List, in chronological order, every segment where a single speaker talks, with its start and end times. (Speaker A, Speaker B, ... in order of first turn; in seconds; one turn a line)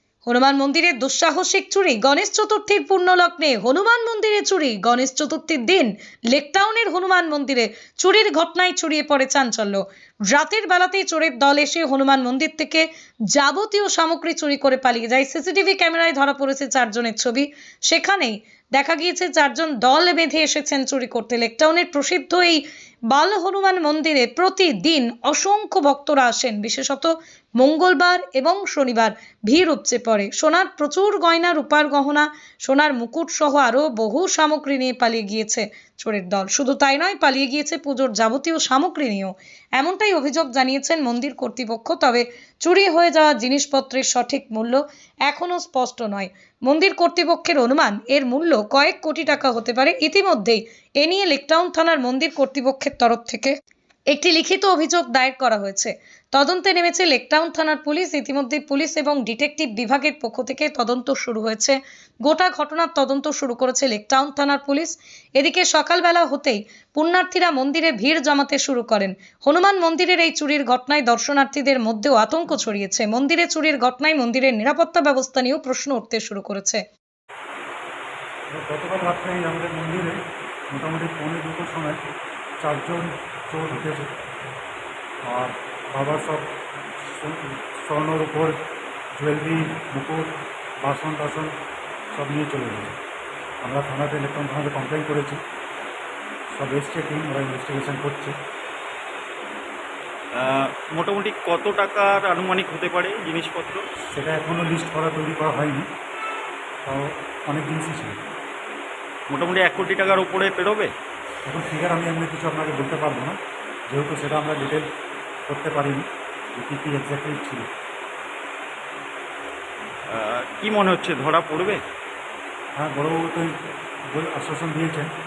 Speaker A: 0.2-53.5
Speaker A: 54.1-76.8
Speaker B: 78.5-80.2
Speaker B: 80.7-82.0
Speaker B: 82.6-84.2
Speaker B: 85.3-88.6
Speaker B: 89.2-91.5
Speaker B: 92.1-93.0
Speaker B: 93.6-95.4
Speaker B: 96.5-98.4
Speaker C: 100.3-103.8
Speaker B: 104.1-105.9
Speaker B: 106.9-108.2
Speaker C: 109.3-110.9
Speaker B: 111.5-114.9
Speaker B: 115.5-117.7
Speaker C: 120.1-121.8
Speaker B: 122.8-123.5
Speaker B: 124.1-125.1